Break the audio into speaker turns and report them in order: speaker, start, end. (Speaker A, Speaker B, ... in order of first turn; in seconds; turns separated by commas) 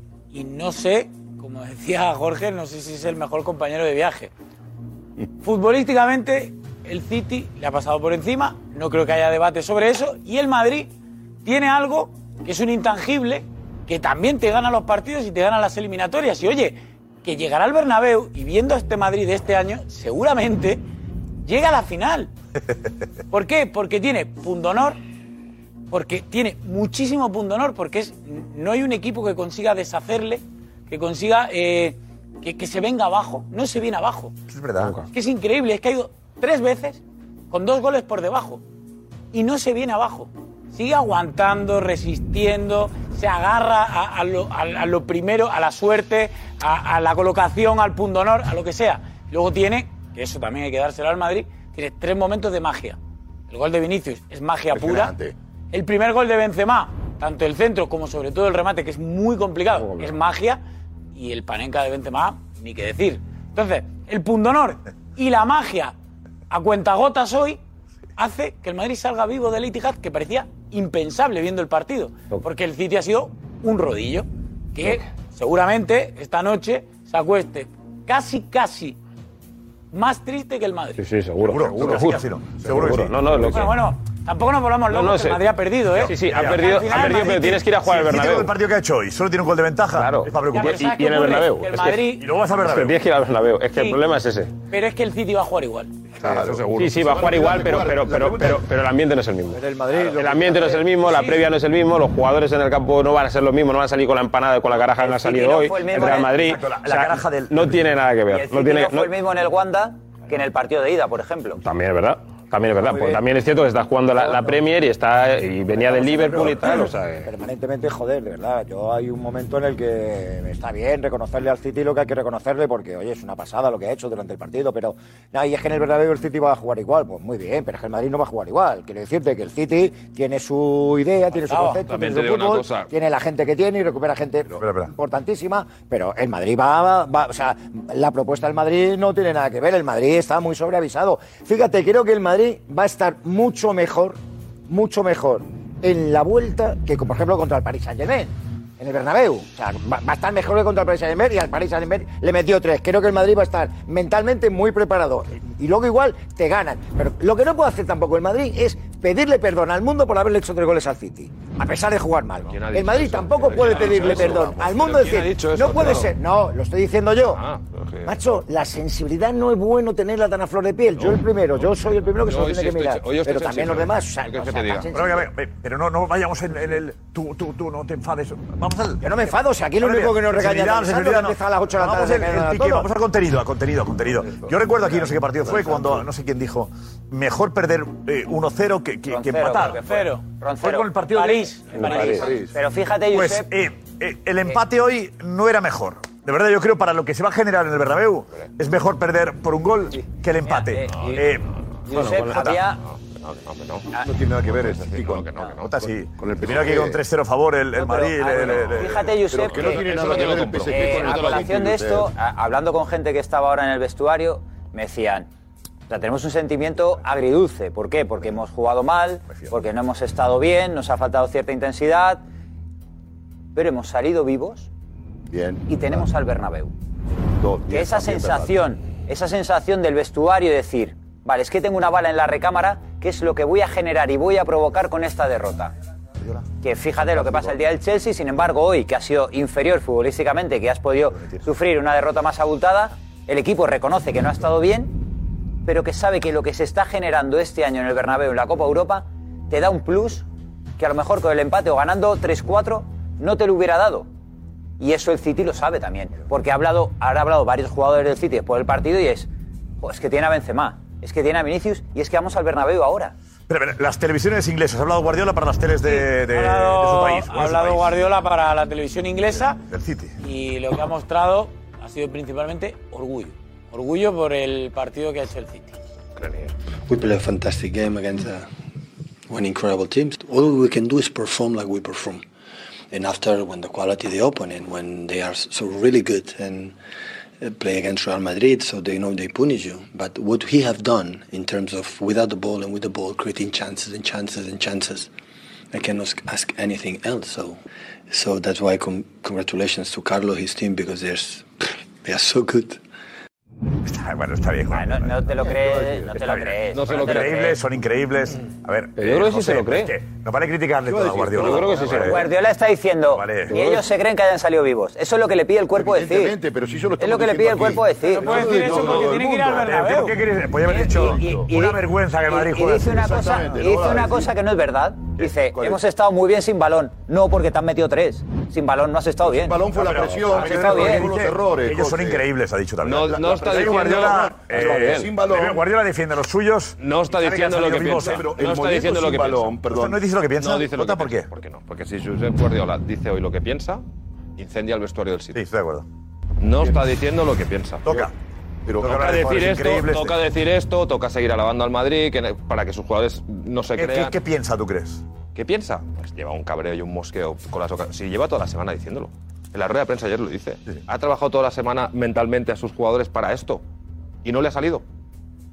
Speaker A: 0.3-4.3, Speaker A: 5.4-10.9, Speaker A: 11.4-20.8, Speaker A: 21.4-22.3, Speaker A: 23.3-25.0, Speaker A: 25.9-34.3, Speaker B: 34.5-35.0, Speaker C: 34.8-35.0, Speaker A: 35.1-38.6, Speaker A: 39.3-53.0, Speaker A: 53.5-55.1, Speaker D: 54.7-55.4, Speaker A: 55.7-60.6, Speaker C: 59.7-60.2, Speaker A: 61.1-66.0, Speaker A: 66.5-67.6, Speaker A: 68.2-79.0, Speaker A: 79.9-81.0, Speaker C: 81.0-83.8, Speaker B: 81.5-83.6, Speaker A: 83.5-87.6, Speaker C: 84.9-85.4, Speaker B: 86.0-91.3, Speaker C: 86.0-88.5, Speaker C: 89.9-94.5, Speaker A: 90.5-92.3, Speaker B: 92.1-93.0, Speaker A: 93.7-94.0, Speaker A: 94.7-95.9, Speaker D: 96.1-98.7, Speaker E: 96.3-96.8, Speaker C: 96.7-109.1, Speaker F: 99.5-100.9, Speaker A: 101.1-101.3, Speaker G: 105.0-106.5, Speaker B: 106.0-107.8, Speaker G: 108.3-111.6, Speaker C: 111.6-117.3, Speaker F: 112.8-113.2, Speaker F: 114.2-114.6, Speaker F: 115.7-144.2, Speaker A: 131.4-131.8, Speaker E: 131.8-132.9, Speaker B: 134.6-134.9, Speaker F: 144.7-167.4, Speaker E: 162.4-166.1, Speaker D: 163.5-164.9, Speaker E: 167.3-168.2, Speaker F: 168.1-175.3, Speaker E: 170.9-174.9, Speaker B: 174.9-179.0, Speaker F: 179.0-182.9, Speaker B: 179.8-189.9, Speaker D: 185.5-186.0, Speaker G: 189.1-191.0, Speaker A: 189.8-190.3, Speaker B: 190.6-192.3, Speaker A: 191.1-192.4, Speaker C: 191.8-192.3, Speaker G: 192.4-193.5, Speaker B: 193.1-201.4, Speaker A: 200.5-201.2, Speaker E: 200.9-201.3, Speaker E: 201.9-203.9, Speaker G: 201.9-202.8, Speaker C: 201.9-202.6, Speaker D: 204.0-205.3, Speaker E: 204.4-205.9, Speaker B: 205.7-208.9, Speaker D: 206.2-207.0, Speaker G: 207.8-215.3, Speaker E: 208.4-208.9, Speaker D: 208.8-212.1, Speaker E: 209.4-211.5, Speaker G: 215.9-222.2, Speaker G: 223.5-224.7, Speaker D: 225.3-226.1, Speaker G: 225.7-226.7, Speaker D: 227.4-228.6, Speaker G: 227.7-235.7, Speaker G: 236.6-245.0, Speaker G: 245.7-250.2, Speaker G: 250.8-254.1, Speaker G: 254.8-259.3, Speaker G: 259.8-263.1, Speaker B: 263.5-267.9, Speaker A: 265.9-269.6, Speaker B: 269.3-270.1, Speaker A: 270.2-275.8, Speaker E: 276.2-276.5, Speaker H: 276.9-278.5, Speaker H: 279.3-282.2, Speaker H: 282.9-286.8, Speaker H: 287.4-295.1, Speaker H: 295.7-301.5, Speaker H: 302.0-302.8, Speaker B: 303.9-305.2, Speaker G: 304.7-307.6, Speaker D: 305.4-306.1, Speaker B: 306.2-312.2, Speaker E: 306.7-307.6, Speaker C: 309.0-309.9, Speaker D: 310.9-311.9, Speaker E: 311.3-312.0, Speaker C: 311.4-312.2, Speaker G: 312.0-316.4, Speaker B: 313.1-313.6, Speaker C: 313.5-313.8, Speaker D: 315.7-319.9, Speaker G: 317.0-318.4, Speaker A: 318.1-321.5, Speaker B: 318.6-323.1, Speaker G: 321.4-331.1, Speaker D: 322.9-324.3, Speaker D: 325.2-325.8, Speaker D: 329.2-332.3, Speaker B: 329.8-338.3, Speaker E: 332.8-335.1, Speaker D: 333.0-335.6, Speaker E: 336.8-339.6, Speaker D: 338.0-340.0, Speaker B: 339.7-341.3, Speaker E: 340.4-343.8, Speaker E: 344.4-345.4, Speaker B: 345.3-345.9, Speaker E: 346.4-348.1, Speaker B: 347.9-348.1, Speaker D: 348.7-349.4, Speaker B: 348.8-350.2, Speaker E: 348.8-354.2, Speaker B: 353.8-355.0, Speaker E: 355.3-363.6, Speaker E: 364.2-364.8